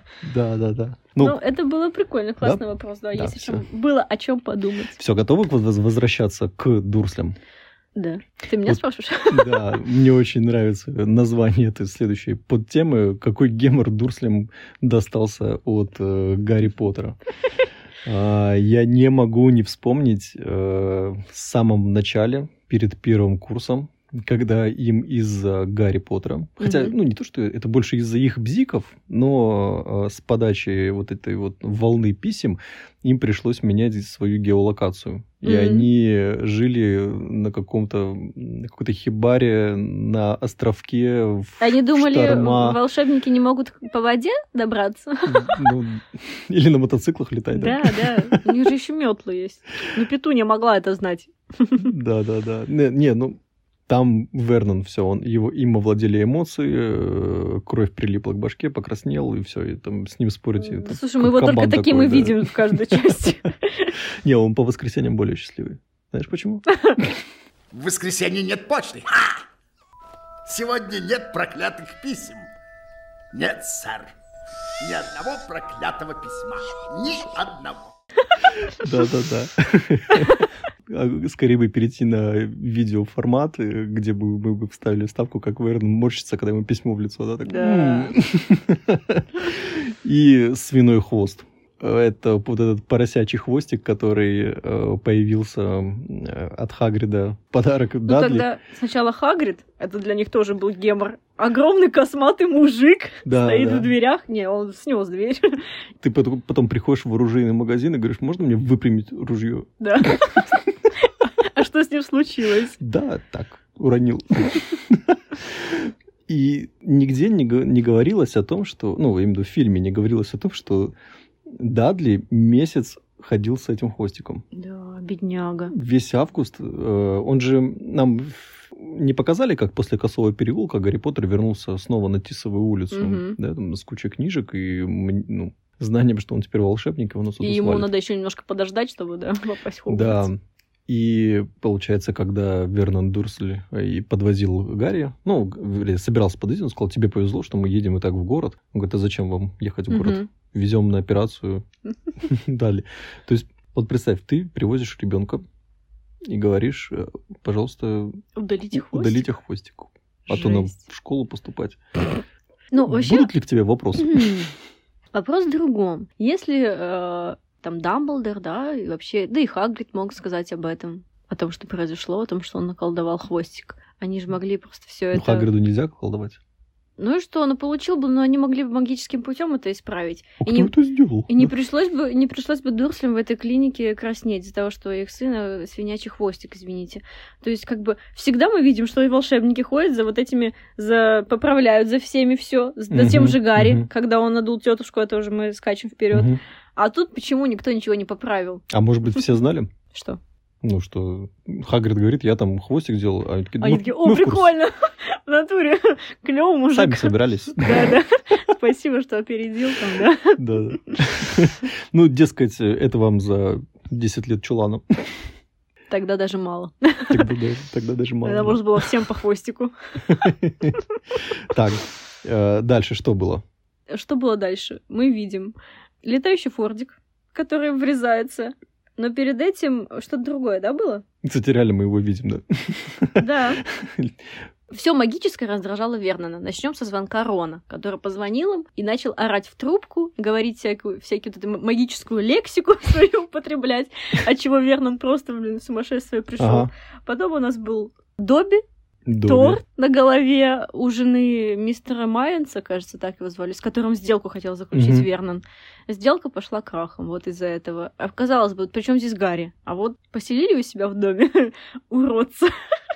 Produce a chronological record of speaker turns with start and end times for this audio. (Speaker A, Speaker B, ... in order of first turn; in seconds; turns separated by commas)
Speaker A: 0.2-1.4, Speaker B: 1.2-5.0, Speaker A: 2.4-3.6, Speaker A: 5.0-7.4, Speaker B: 8.0-9.8, Speaker A: 8.7-17.2, Speaker A: 18.1-42.8, Speaker B: 26.6-26.9, Speaker B: 35.4-35.9, Speaker B: 41.6-45.7, Speaker A: 45.3-48.6, Speaker B: 47.6-51.9, Speaker A: 51.9-63.1, Speaker B: 60.6-63.9, Speaker A: 64.2-67.2, Speaker C: 67.7-69.3, Speaker C: 70.5-72.5, Speaker C: 73.3-74.1, Speaker C: 74.8-77.9, Speaker A: 78.8-98.5, Speaker B: 87.5-88.1, Speaker B: 98.1-105.6, Speaker A: 103.2-103.9, Speaker A: 106.0-110.4, Speaker B: 109.8-110.4, Speaker B: 111.2-112.8, Speaker A: 112.8-120.9, Speaker A: 121.5-124.4, Speaker B: 124.5-125.7, Speaker A: 125.7-137.9, Speaker B: 132.9-133.4, Speaker B: 137.4-140.3, Speaker A: 139.9-151.7, Speaker B: 149.9-150.3, Speaker A: 152.2-155.4, Speaker A: 156.3-158.2, Speaker B: 158.4-159.3, Speaker A: 158.7-161.8, Speaker B: 160.3-160.8, Speaker B: 162.7-163.3, Speaker A: 162.9-164.4, Speaker B: 164.0-164.5, Speaker B: 165.1-175.5, Speaker A: 175.1-176.4, Speaker B: 177.0-180.7, Speaker A: 180.4-181.5, Speaker B: 181.3-198.6, Speaker A: 192.9-193.9, Speaker A: 196.1-196.4, Speaker A: 198.7-199.7, Speaker B: 199.9-200.2, Speaker A: 200.6-204.5, Speaker B: 203.6-210.4, Speaker A: 206.8-207.9, Speaker A: 210.4-215.1, Speaker B: 215.9-217.3, Speaker A: 217.1-218.9, Speaker B: 218.2-219.7, Speaker A: 220.1-220.8, Speaker A: 221.5-223.4, Speaker B: 223.9-231.0, Speaker A: 231.2-234.2, Speaker B: 233.2-233.6, Speaker B: 234.7-248.6, Speaker A: 246.4-246.7, Speaker A: 249.1-249.6, Speaker B: 249.2-262.5, Speaker A: 254.7-255.1